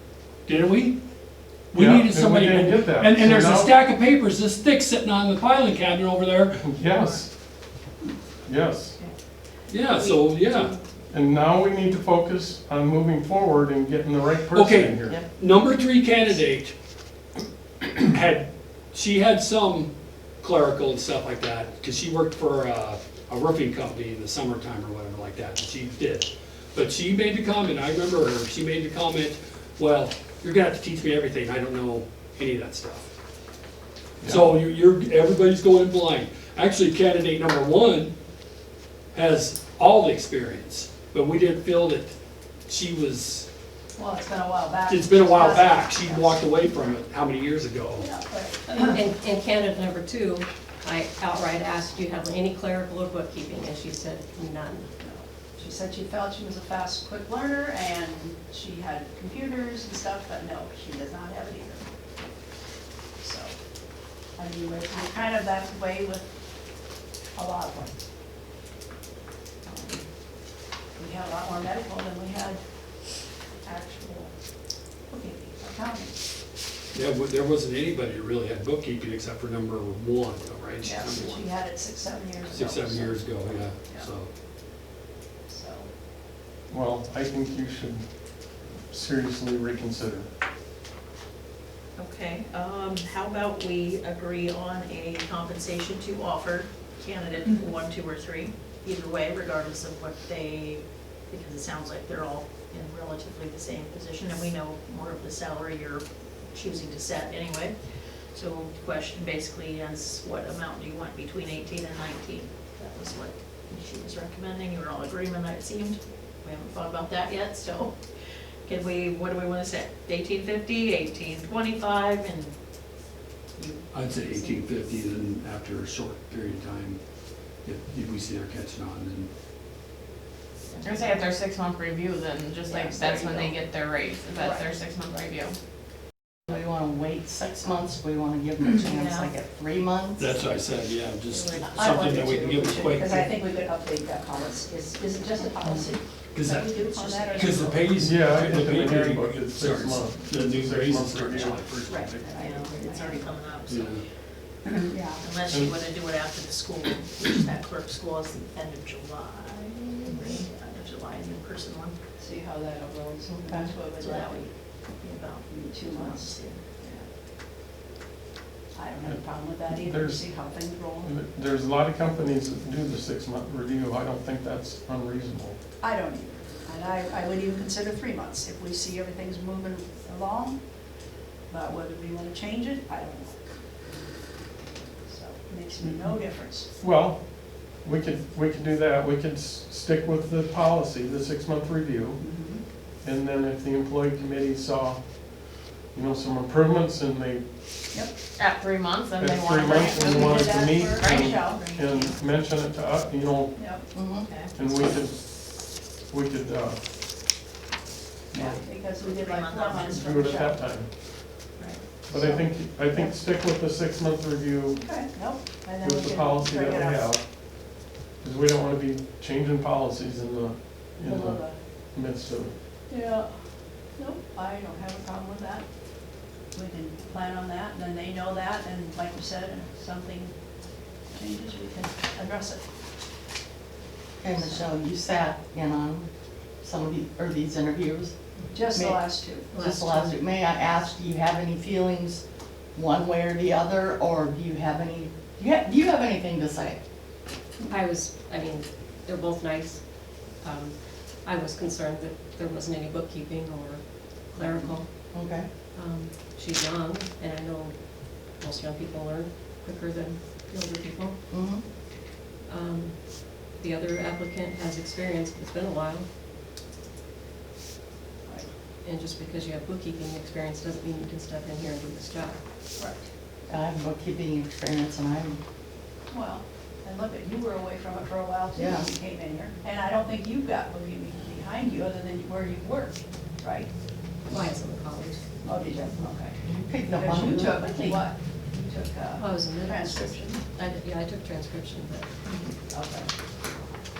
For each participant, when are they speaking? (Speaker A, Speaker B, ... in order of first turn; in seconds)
Speaker A: 0.5-0.9, 1.7-6.6, 9.7-10.7, 14.5-16.7, 17.9-33.1, 34.2-38.1, 39.1-42.1, 42.7-43.5, 44.9-48.1, 76.9-81.5, 82.5-84.3, 123.9-127.0, 127.6-129.3, 140.2-143.3, 146.3-146.7, 147.3-151.8, 153.7-154.0
Speaker B: 1.7-3.8, 6.6-7.3, 8.4-9.0, 11.1-15.2, 34.2-34.5, 86.7-88.1, 88.7-90.3, 147.5-152.3, 155.4-155.7, 169.1-170.2, 171.0-175.6, 185.8-186.2, 186.8-192.2, 193.0-197.7, 199.2-203.6, 204.5-206.8, 208.3-208.6, 209.9-210.9, 212.1-214.8, 215.8-222.5
Speaker C: 6.8-7.2, 9.7-10.8, 92.0-118.0, 118.6-122.5, 123.5-124.7, 130.7-131.2, 138.7-139.3, 146.8-147.8, 152.3-154.0, 155.1-161.9, 164.0-166.6, 201.2-202.2, 204.1-204.5, 208.7-210.2, 211.6-211.8
Speaker D: 44.0-46.4, 48.0-49.0, 55.0-61.8, 63.2-63.5, 64.3-66.2, 67.3-67.9, 69.7-70.0, 71.0-72.6, 73.6-74.3, 75.1-76.2, 80.8-84.1, 85.5-85.9, 132.7-133.7, 134.3-134.7, 141.7-147.8, 151.8-153.3, 154.8-155.3, 162.2-164.5, 165.4-167.1, 168.7-171.1, 175.8-180.6, 181.5-183.4, 185.1-186.7, 192.2-192.6, 197.9-198.2, 199.9-201.2, 203.5-203.9, 208.4-210.6, 212.1-213.1, 214.8-217.1, 221.0-221.6, 222.9-223.3, 223.9-225.7, 226.5-230.3, 231.1-232.6, 234.4-234.6, 238.5-239.5, 272.8-273.1, 276.1-283.7, 285.4-286.4, 286.9-290.5, 292.6-293.1
Speaker E: 48.6-54.9, 239.5-240.1, 247.7-254.9, 255.7-257.8, 258.3-261.1, 262.5-266.1, 268.8-272.4, 284.3-285.2, 289.2-292.1
Speaker F: 130.8-135.6, 198.3-200.4, 201.0-201.5
Speaker G: 136.5-140.3, 163.3-163.7, 203.9-204.3, 234.2-236.1, 236.6-238.1, 238.7-239.0, 239.5-242.2, 242.7-246.8, 254.5-255.5, 261.3-261.6, 273.5-275.4, 278.5-278.9, 286.4-288.0